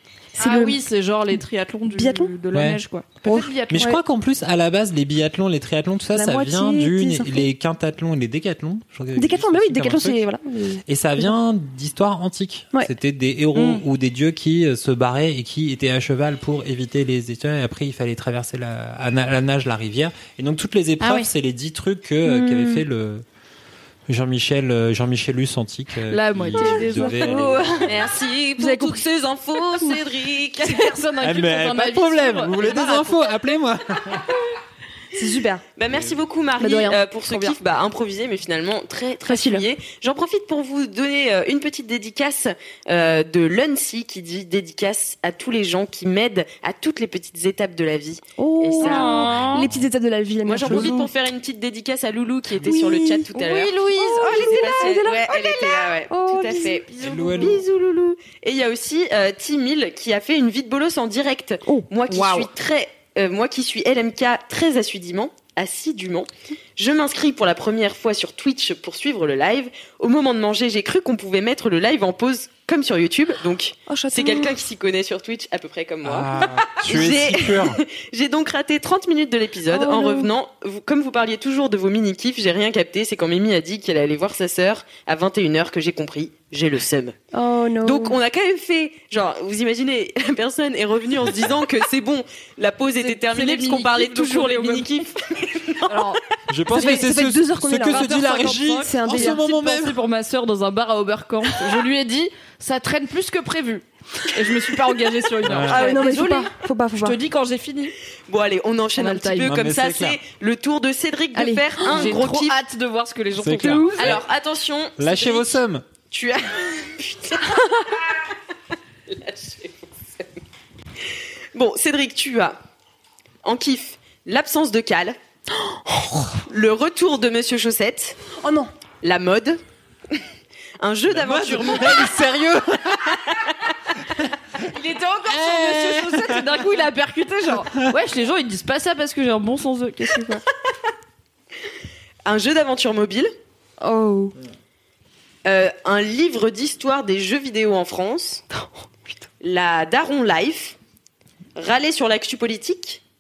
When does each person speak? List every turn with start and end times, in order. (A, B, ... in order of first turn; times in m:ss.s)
0:00.4-0:00.8 A
0:00.4-0:03.9 B
0:01.9-0:02.3 A
0:02.5-0:10.2 C
0:03.8-0:04.0 A
0:06.2-0:07.5 A
0:09.2-0:11.3 A
0:10.9-0:23.2 C
0:13.5-0:13.8 B
0:21.0-0:21.3 B
0:22.2-0:22.8 A
0:24.1-0:27.8 C
0:26.1-0:27.7 B
0:26.6-0:27.9 A
0:27.8-0:31.0 D
0:28.6-0:29.0 A
0:30.6-0:33.1 B
0:31.2-0:34.4 C
0:35.1-0:35.6 A
0:35.8-0:49.4 D
0:36.6-0:37.6 A
0:39.2-0:39.7 A
0:48.4-0:51.1 A
0:48.8-0:49.7 B
0:50.4-1:27.2 D
0:50.7-0:50.9 C
0:52.6-0:56.8 A
0:53.4-0:55.1 B
0:56.6-0:57.6 B
0:57.0-0:57.6 C
1:13.9-1:14.6 A
1:16.0-1:17.8 C
1:19.7-1:20.3 A
1:27.3-1:28.2 A
1:27.8-1:36.1 D
1:33.0-1:35.1 B
1:35.9-1:36.2 B
1:36.5-1:40.0 C
1:36.7-1:38.1 A
1:36.8-1:37.0 B
1:37.8-1:48.0 B
1:38.8-1:39.4 A
1:45.4-1:45.9 C
1:45.5-1:47.2 A
1:48.3-1:52.6 D
1:49.0-1:49.5 B
1:49.4-1:50.2 C
1:51.4-1:51.8 A
1:51.8-1:54.2 B
1:53.4-1:54.2 C
1:54.0-1:55.6 D
1:55.0-1:55.8 C
1:56.1-1:58.2 D
1:59.1-2:00.3 D
2:01.5-2:02.6 D
2:03.4-2:05.2 D
2:05.6-2:06.4 A
2:06.5-2:08.2 D
2:08.4-2:08.7 A
2:09.0-2:10.2 D
2:10.8-2:12.2 D
2:11.1-2:13.2 C
2:14.7-2:20.4 B
2:15.3-2:16.6 C
2:22.2-2:23.3 D
2:23.8-2:24.3 A
2:25.4-2:28.4 D
2:28.6-2:29.2 A
2:29.4-2:30.8 D
2:31.6-2:33.0 D